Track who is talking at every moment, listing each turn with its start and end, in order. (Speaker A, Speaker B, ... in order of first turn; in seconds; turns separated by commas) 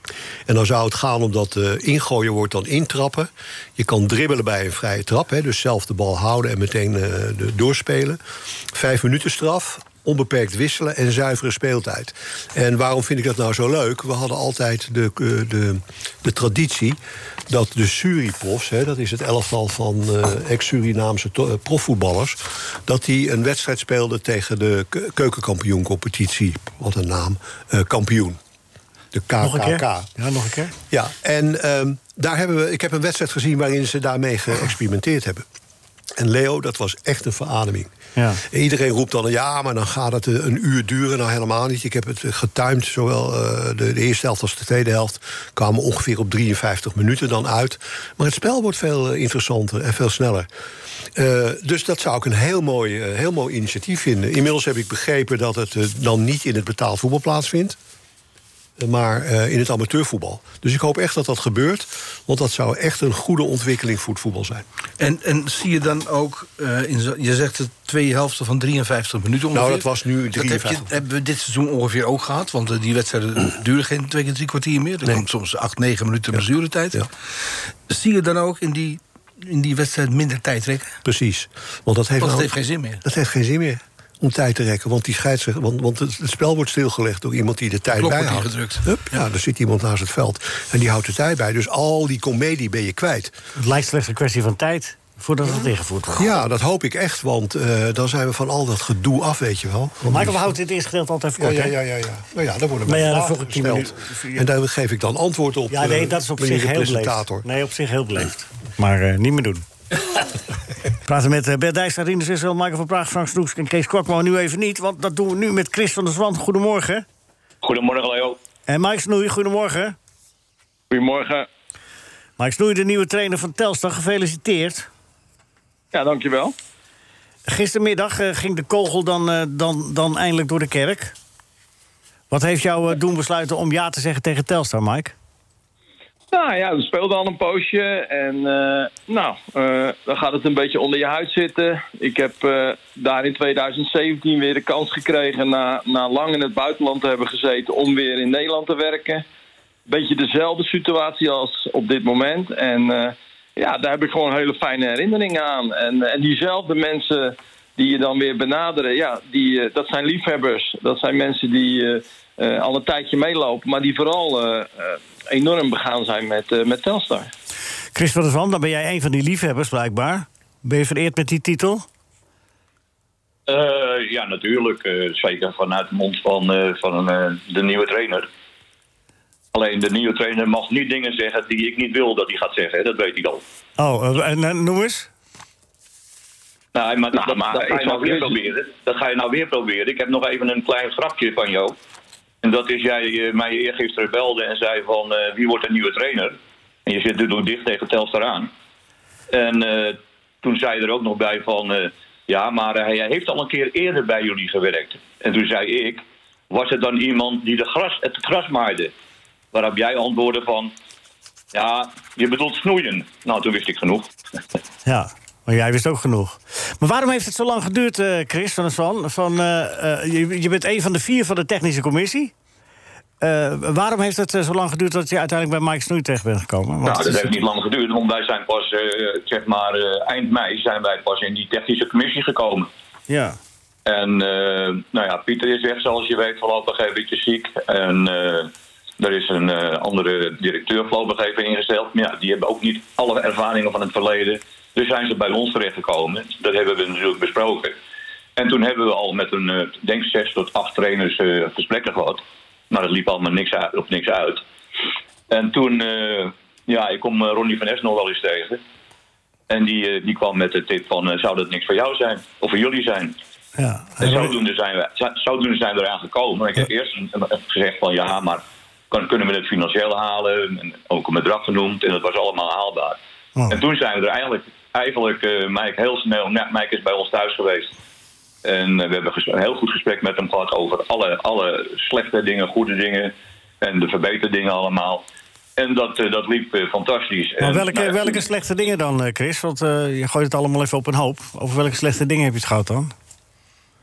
Speaker A: 0.5-8.2, Speaker A: 8.7-28.4, Speaker A: 29.1-30.1, Speaker B: 29.4-30.7, Speaker A: 30.9-35.4, Speaker A: 36.1-50.5, Speaker B: 38.1-38.4, Speaker A: 51.1-57.8, Speaker A: 58.8-64.6, Speaker C: 65.0-77.1, Speaker A: 69.5-70.9, Speaker C: 77.9-81.0, Speaker A: 81.0-93.3, Speaker C: 82.2-83.0, Speaker C: 88.0-89.2, Speaker B: 93.5-96.3, Speaker A: 96.2-100.5, Speaker B: 100.1-101.7, Speaker A: 101.4-107.5, Speaker B: 102.8-104.4, Speaker B: 105.7-109.7, Speaker B: 111.0-117.0, Speaker D: 117.6-118.4, Speaker B: 118.7-120.0, Speaker E: 120.9-121.5, Speaker B: 122.4-124.9, Speaker E: 125.9-126.5, Speaker B: 127.5-131.1, Speaker B: 132.3-135.1, Speaker E: 136.3-149.2, Speaker E: 149.9-167.3, Speaker B: 167.9-171.8, Speaker D: 173.5-178.3, Speaker D: 179.5-183.4, Speaker B: 183.8-185.1, Speaker D: 186.7-191.8, Speaker E: 187.1-188.4, Speaker D: 192.4-198.5, Speaker D: 199.3-208.9, Speaker D: 209.5-210.7, Speaker D: 211.5-214.1, Speaker B: 214.8-222.3, Speaker B: 223.2-227.4, Speaker D: 226.8-232.7, Speaker B: 233.1-233.4, Speaker D: 233.8-247.8, Speaker D: 248.4-254.4, Speaker D: 255.3-258.6, Speaker D: 259.5-263.2, Speaker B: 263.6-264.4, Speaker D: 264.0-273.0, Speaker D: 273.5-277.7, Speaker D: 278.4-285.0, Speaker D: 285.6-288.2, Speaker B: 287.4-292.9